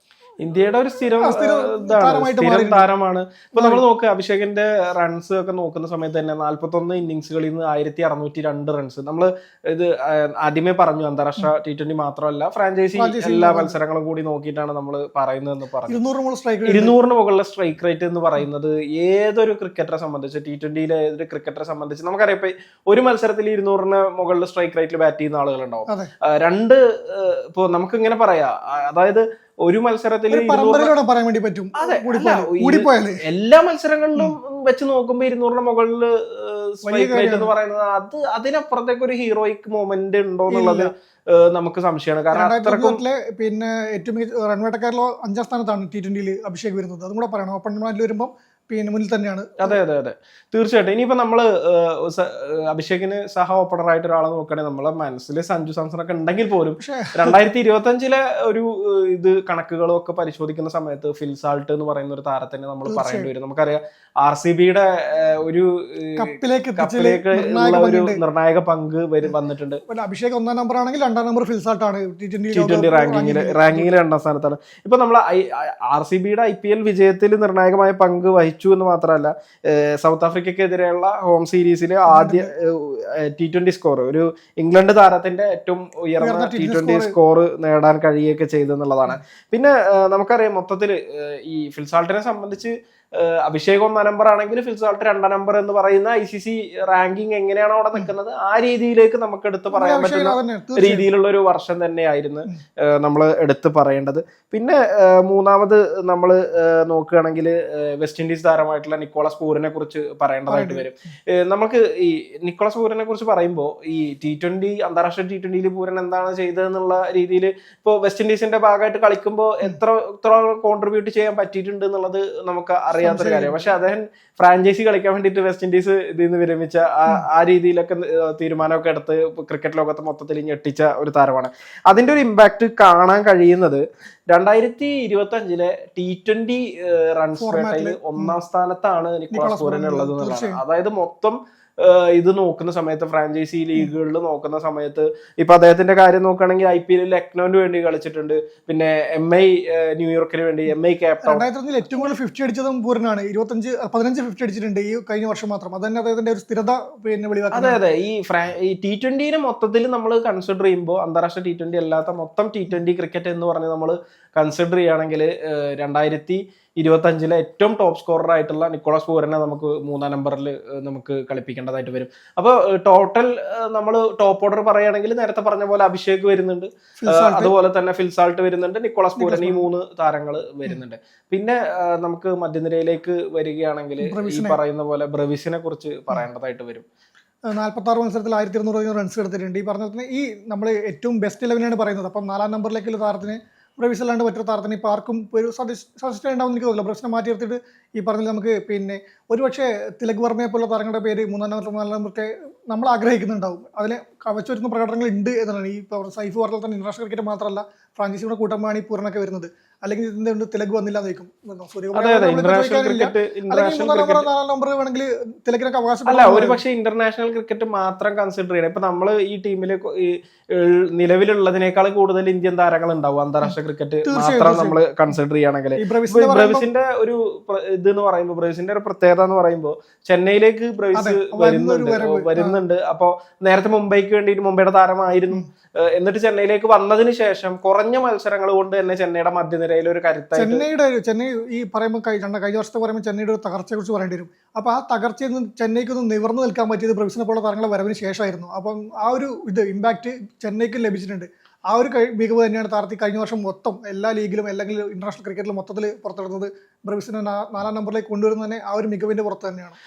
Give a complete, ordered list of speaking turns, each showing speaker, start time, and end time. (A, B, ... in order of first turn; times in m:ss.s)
0:00.4-0:16.0 A
0:01.2-0:02.8 B
0:03.5-0:03.8 B
0:13.0-0:13.7 B
0:15.9-0:16.9 B
0:16.6-0:30.9 A
0:30.3-0:33.2 B
0:31.8-0:43.0 A
0:36.8-0:37.5 B
0:40.5-0:40.9 B
0:42.3-0:49.8 B
0:49.6-1:09.8 A
0:56.8-0:57.4 B
1:02.8-1:03.3 B
1:06.2-1:08.2 B
1:09.9-1:13.9 B
1:12.5-2:31.4 A
1:22.1-1:22.5 B
1:26.2-1:27.1 B
1:39.7-1:41.1 B
1:50.5-1:50.8 B
2:03.0-2:03.7 B
2:17.4-2:18.4 B
2:19.3-2:20.6 B
2:31.2-2:37.8 B
2:37.5-3:06.8 A
2:57.0-2:57.5 B
2:59.2-2:59.7 B
3:04.0-3:04.6 B
3:07.5-3:36.6 B
3:31.9-3:34.3 A
3:36.1-4:00.6 A
3:43.4-3:45.1 B
3:45.8-3:46.7 B
3:50.9-3:52.6 B
4:00.4-4:19.8 B